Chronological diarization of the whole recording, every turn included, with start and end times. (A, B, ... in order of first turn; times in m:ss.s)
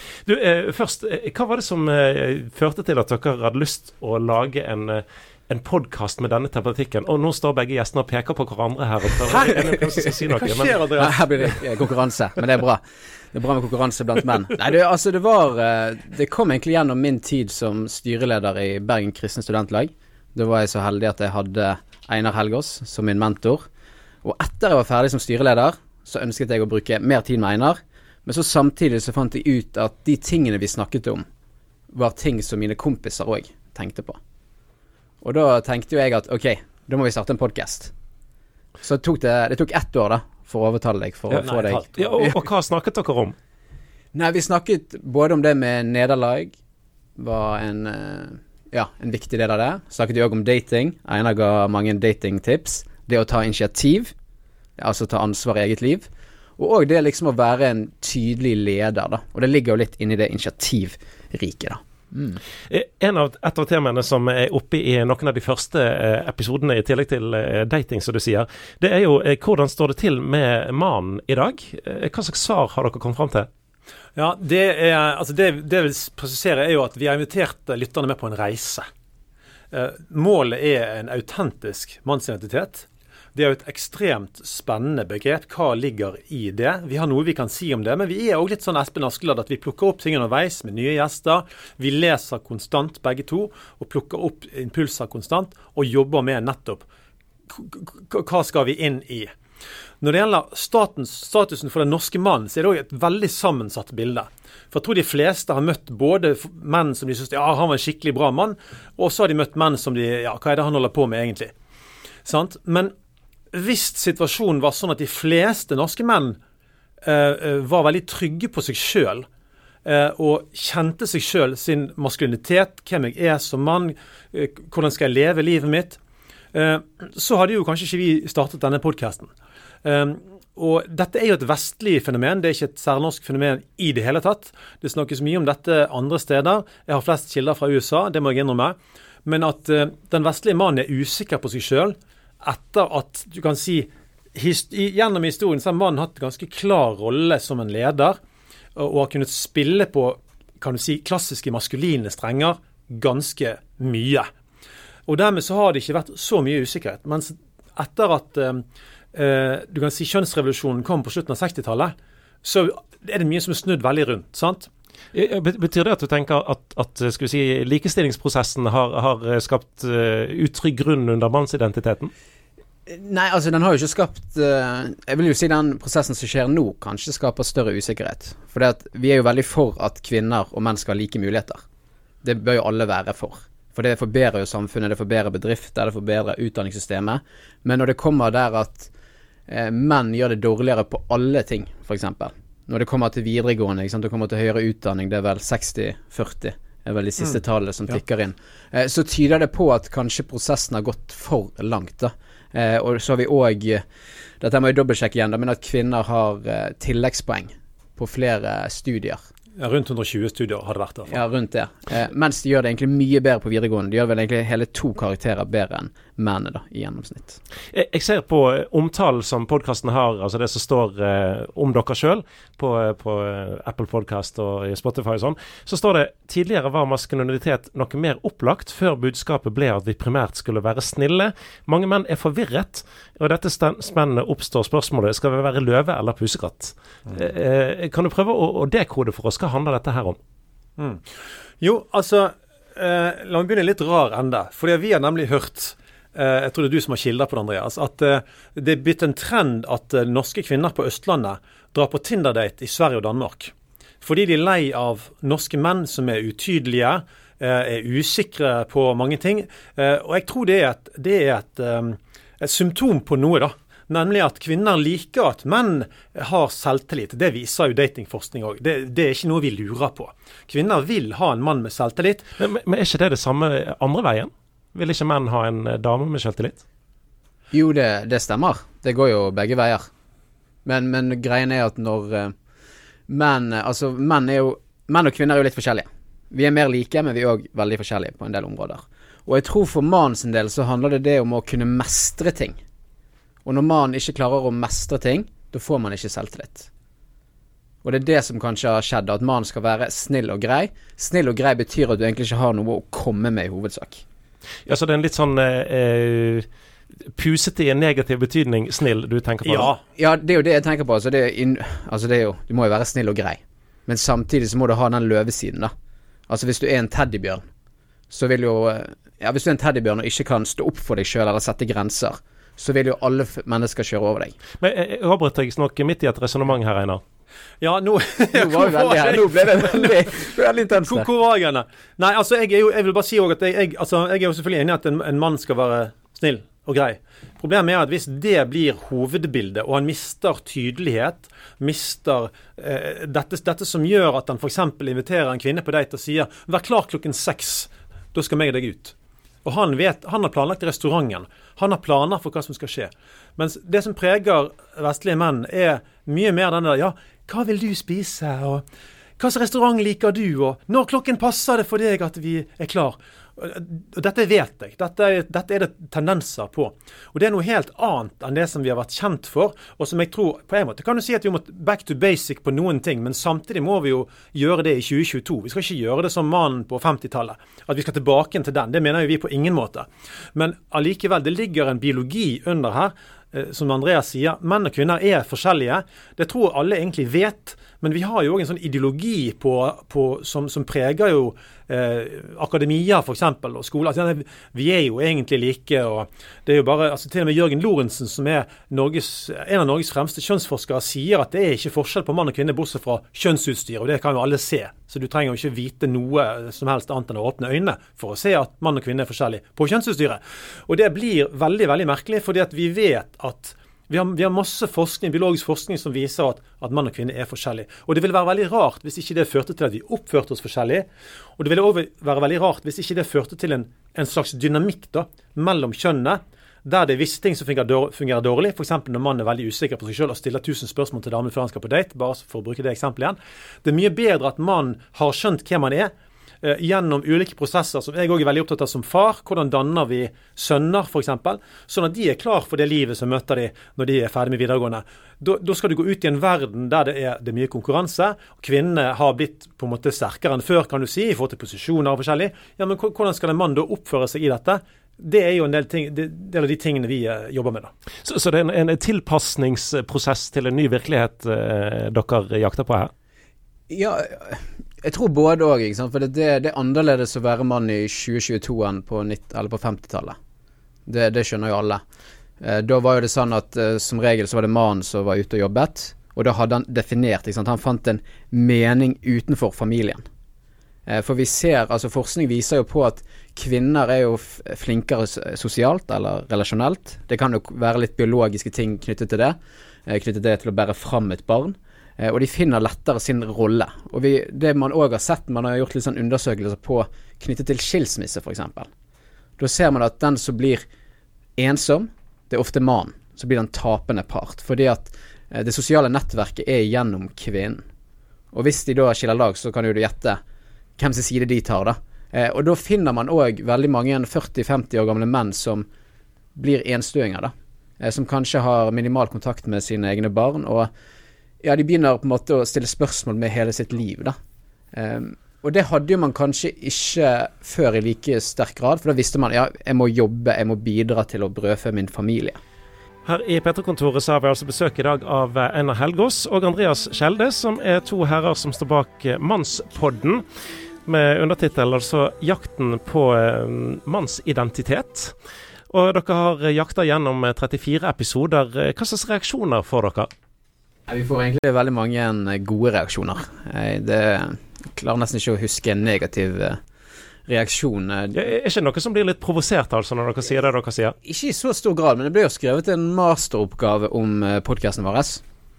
0:00.2-0:10.8 A
0:09.3-0:09.8 B
0:10.3-0:11.6 B
0:11.0-0:23.6 C
0:24.2-0:31.2 C
0:31.9-0:34.2 C
0:35.2-0:37.9 C
0:38.8-0:42.4 C
0:41.3-0:43.3 A
0:41.4-0:42.1 B
0:44.1-0:46.6 C
0:47.2-0:54.1 C
0:54.8-0:56.1 C
0:56.6-1:01.8 C
1:02.7-1:13.5 A
1:14.2-1:18.8 B
1:19.7-1:36.8 B
1:37.5-1:39.3 B
1:40.0-1:51.5 B
1:52.2-1:52.9 B
1:53.5-1:56.4 B
1:57.0-1:59.2 B
1:59.8-2:06.0 B
2:06.5-2:09.3 B
2:09.8-2:28.2 B
2:28.8-2:34.3 B
2:35.1-2:44.7 B
2:45.1-2:52.1 A
2:52.9-3:01.6 C
3:02.2-3:08.9 C
3:09.5-3:23.8 C
3:24.4-3:29.2 C
3:29.6-3:31.2 B
3:31.1-3:37.4 C
3:37.7-4:00.2 A
4:00.8-4:01.0 B
4:01.6-4:32.3 B
4:32.4-4:36.6 A
4:37.5-4:39.8 C
4:40.6-4:42.3 C
4:43.1-4:52.6 C
4:53.4-4:56.7 C
4:57.8-5:04.0 C
5:04.6-5:06.4 A
5:07.2-5:09.7 A
5:09.4-5:09.8 B
5:10.0-5:15.7 C
5:16.3-5:17.4 C
5:18.1-5:24.4 C
5:24.6-5:27.0 A
5:27.6-5:58.6 B
5:28.3-5:31.1 C
5:59.2-7:00.8 B
7:01.4-7:15.9 B
7:16.4-7:37.7 B
7:38.0-7:42.9 A
7:43.7-7:50.1 C
7:50.9-7:51.8 C
7:52.4-8:00.0 C
8:00.9-8:09.4 C
8:09.9-8:18.7 C
8:19.4-8:20.6 C
8:21.4-8:27.6 C
8:28.3-8:30.2 C
8:30.8-8:35.7 C
8:36.3-8:40.7 C
8:41.4-8:44.1 C
8:44.7-8:52.4 C
8:53.0-9:00.2 A
9:00.8-9:05.1 A
9:05.7-9:10.1 A
9:10.9-9:16.6 C
9:17.3-9:18.2 C
9:18.1-9:20.9 A
9:21.0-9:25.2 C